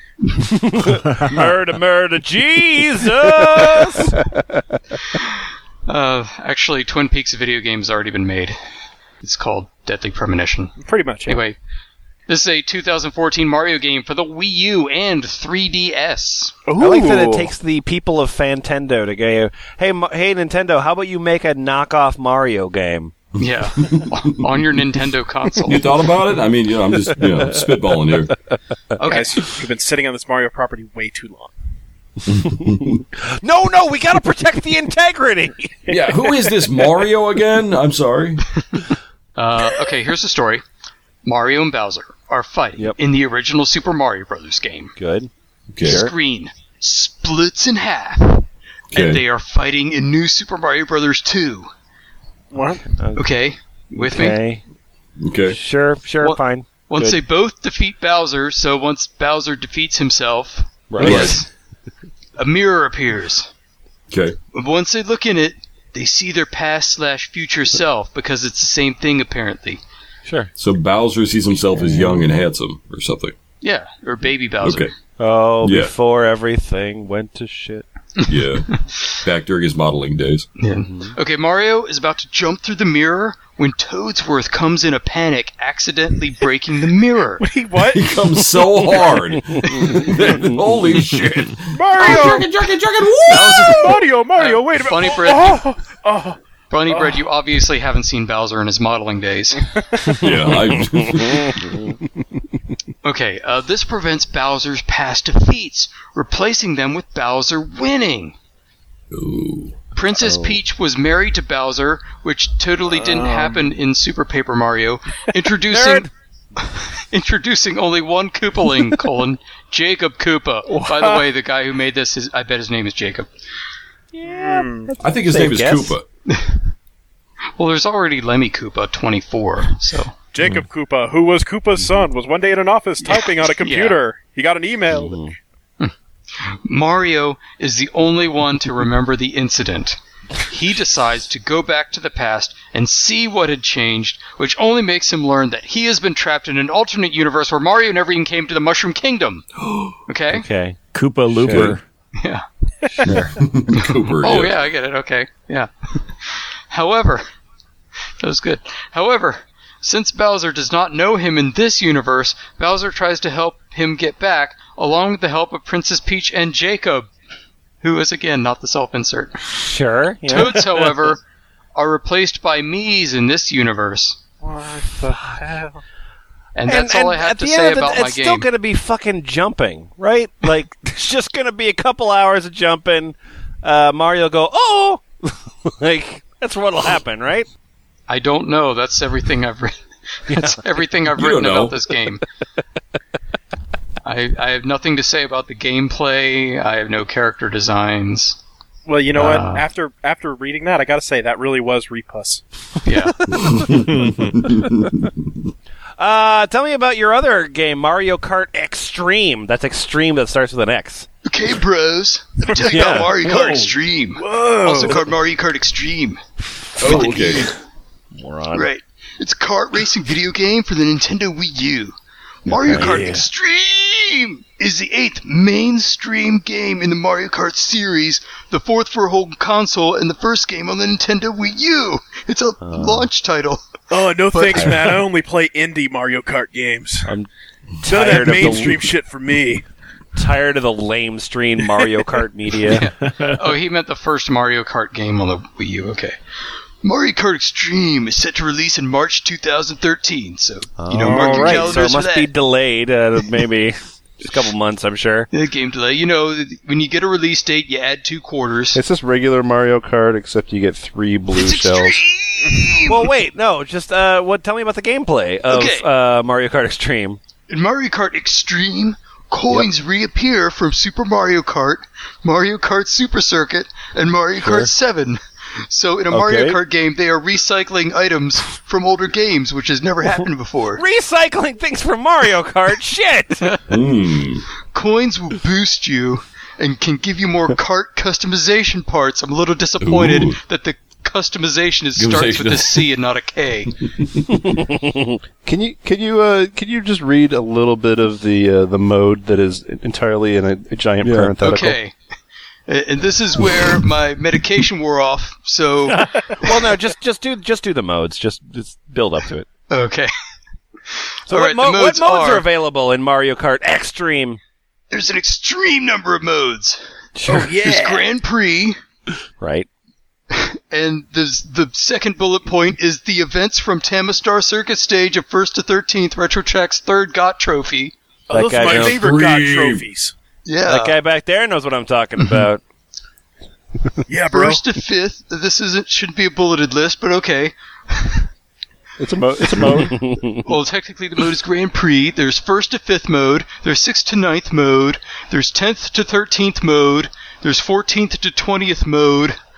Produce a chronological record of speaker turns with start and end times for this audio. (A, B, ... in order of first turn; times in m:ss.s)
0:00.4-0:04.2 A
0:03.4-0:04.6 B
0:05.9-0:08.6 C
0:09.2-0:11.6 C
0:10.8-0:11.4 D
0:12.3-0:16.6 C
0:16.7-0:17.5 D
0:16.8-0:23.1 A
0:23.4-0:25.9 C
0:23.4-0:24.3 E
0:25.6-0:28.4 E
0:29.0-0:29.5 C
0:29.0-0:31.5 D
0:32.4-0:33.0 E
0:33.2-0:35.9 A
0:35.9-0:38.5 E
0:39.4-0:40.6 C
0:41.2-0:44.9 C
0:45.0-0:45.3 A
0:45.7-0:46.0 E
0:45.8-0:51.7 C
0:45.8-0:46.1 A
0:48.9-0:49.2 E
0:52.5-0:52.9 D
0:53.0-0:53.3 A
0:53.2-0:54.4 C
0:54.0-0:54.6 A
0:55.2-0:55.6 E
0:55.5-0:57.2 A
0:56.2-1:01.5 C
1:00.9-1:01.4 A
1:01.0-1:01.4 E
1:02.4-1:03.5 C
1:04.1-1:04.4 E
1:04.5-1:09.8 C
1:10.6-1:13.4 E
1:11.8-1:12.2 A
1:13.6-1:14.9 C
1:14.6-1:14.9 E
1:15.2-1:17.9 A
1:15.6-1:15.9 E
1:18.3-1:20.5 E
1:20.6-1:27.5 C
1:20.8-1:21.2 A
1:27.4-1:28.3 D
1:27.8-1:31.8 E
1:29.7-1:30.1 C
1:31.7-1:32.5 D
1:31.9-1:34.0 F
1:33.3-1:35.7 C
1:33.6-1:36.4 D
1:36.7-1:39.7 C
1:36.9-1:37.2 D
1:40.1-1:41.8 E
1:41.0-1:41.8 A
1:43.0-1:48.4 C
1:49.1-1:49.8 E
1:50.0-1:56.1 C
1:50.2-1:50.6 A
1:52.9-1:53.7 D
1:55.7-1:56.1 A
1:56.6-2:03.3 C
2:00.7-2:01.2 D
2:04.1-2:06.0 A
2:04.2-2:04.9 D
2:05.0-2:06.0 E
2:06.3-2:06.6 C
2:07.6-2:10.1 C
2:10.3-2:15.2 D
2:13.0-2:14.0 C
2:14.9-2:15.4 A
2:15.8-2:29.5 C
2:29.6-2:29.9 E
2:30.1-2:30.5 C
2:30.3-2:30.8 A
2:30.9-2:31.8 G
2:31.4-2:31.8 A
2:31.4-2:31.8 E
2:32.2-2:32.4 C
2:33.0-2:34.6 E
2:33.8-2:37.2 C
2:38.2-2:47.1 C
2:47.8-2:49.4 C
2:49.6-2:50.9 A
2:50.3-2:51.2 C
2:51.8-2:54.2 C
2:54.4-2:55.8 D
2:56.6-2:58.5 C
2:56.7-3:07.5 A
3:08.1-3:09.8 C
3:10.3-3:12.2 C
3:10.3-3:10.6 A
3:11.1-3:11.8 E
3:14.0-3:18.4 C
3:18.9-3:22.4 D
3:19.1-3:19.6 C
3:22.8-3:23.3 C
3:23.3-3:25.1 E
3:23.7-3:24.5 G
3:26.0-3:31.1 A
3:31.2-3:36.2 C
3:32.7-3:33.1 A
3:34.2-3:35.1 D
3:36.8-3:37.5 E
3:36.8-3:37.5 C
3:36.8-3:37.3 A
3:38.2-3:38.7 A
3:38.5-3:41.9 C
3:42.4-3:53.8 C
3:42.5-3:43.2 A
3:52.6-3:53.1 A
3:53.9-3:57.1 D
3:54.3-3:54.9 C
3:57.8-3:58.9 A
3:57.8-3:59.7 D
4:00.2-4:02.9 A
4:02.6-4:06.2 C
4:03.1-4:03.4 G
4:06.8-4:12.3 C
4:10.8-4:15.3 A
4:11.0-4:11.8 D
4:15.3-4:18.8 C
4:18.7-4:22.0 B
4:21.3-4:23.1 C
4:22.8-4:27.2 A
4:25.5-4:25.9 C
4:27.5-4:40.8 C
4:34.4-4:34.7 A
4:36.1-4:36.6 A
4:40.8-4:43.5 A
4:43.7-4:44.4 E
4:44.7-4:53.8 C
4:49.8-4:50.4 E
4:52.0-4:52.9 E
4:54.0-4:54.5 E
4:54.6-4:55.2 A
4:55.4-5:01.8 B
5:01.0-5:01.3 E
5:01.4-5:02.0 C
5:02.7-5:06.7 C
5:05.9-5:09.5 A
5:09.7-5:10.1 C
5:10.9-5:12.5 C
5:11.3-5:14.4 A
5:14.9-5:18.8 C
5:17.2-5:17.6 A
5:17.3-5:18.0 D
5:19.4-5:19.7 A
5:20.3-5:27.9 C
5:28.3-5:29.0 A
5:28.3-5:30.1 D
5:28.6-5:29.9 E
5:30.5-5:31.0 C
5:30.7-5:32.6 A
5:34.1-5:34.6 D
5:34.3-5:38.3 C
5:39.0-5:40.1 B
5:39.8-5:40.4 A
5:40.4-5:49.4 C